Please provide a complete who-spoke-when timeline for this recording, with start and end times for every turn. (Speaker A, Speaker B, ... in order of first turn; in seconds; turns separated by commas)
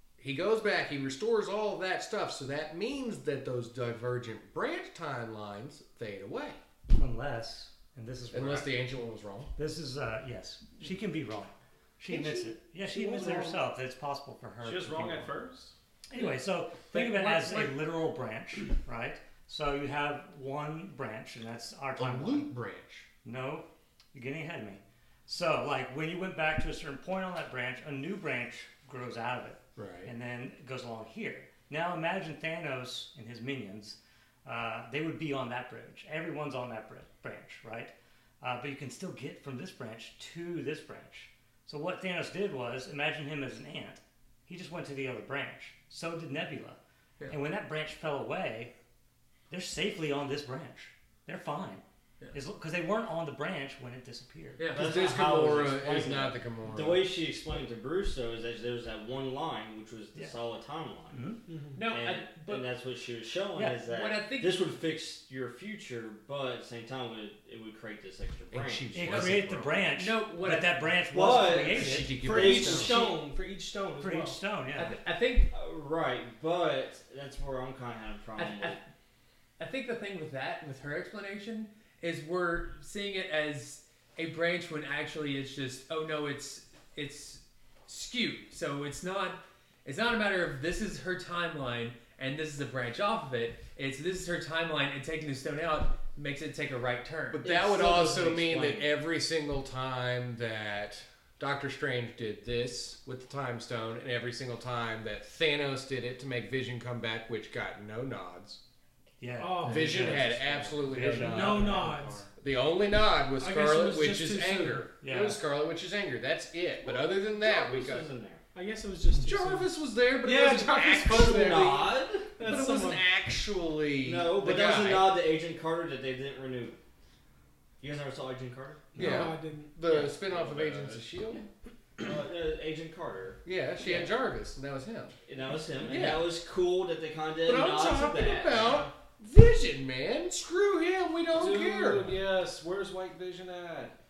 Speaker A: 0.2-6.6, Speaker B: 6.9-8.8, Speaker A: 8.3-9.5, Speaker B: 9.6-15.4, Speaker C: 12.9-13.5, Speaker C: 14.6-15.7, Speaker B: 16.1-22.5, Speaker A: 21.9-23.1, Speaker B: 23.2-48.7, Speaker A: 29.8-30.1, Speaker B: 49.5-54.6, Speaker D: 54.6-54.9, Speaker E: 54.7-61.3, Speaker A: 54.7-57.0, Speaker B: 61.1-61.4, Speaker F: 61.5-61.8, Speaker D: 61.7-62.6, Speaker E: 61.9-69.3, Speaker B: 63.5-63.8, Speaker D: 63.9-64.6, Speaker A: 68.5-69.8, Speaker B: 68.9-72.1, Speaker D: 69.9-70.8, Speaker E: 71.1-73.1, Speaker A: 71.6-73.1, Speaker F: 72.2-74.4, Speaker B: 74.0-75.0, Speaker D: 74.7-75.5, Speaker E: 75.5-78.8, Speaker D: 78.3-78.8, Speaker D: 79.6-97.4, Speaker A: 97.3-108.6, Speaker E: 97.4-98.9, Speaker B: 109.2-112.2, Speaker F: 109.4-110.3, Speaker A: 109.6-111.8, Speaker F: 111.2-112.3, Speaker A: 112.3-118.1, Speaker F: 113.4-114.9, Speaker B: 115.0-115.4, Speaker E: 117.2-118.4, Speaker F: 118.5-119.7, Speaker A: 119.2-125.2, Speaker F: 120.2-121.5, Speaker E: 121.0-122.4, Speaker F: 122.4-123.0, Speaker E: 124.0-126.8, Speaker E: 127.8-129.2, Speaker F: 128.9-129.7, Speaker A: 129.0-131.4, Speaker E: 129.9-130.1, Speaker C: 130.0-131.1, Speaker E: 132.0-134.1, Speaker A: 133.4-135.1, Speaker E: 135.3-138.8, Speaker A: 135.9-136.3, Speaker A: 137.4-142.2, Speaker F: 138.5-138.9, Speaker C: 141.3-143.9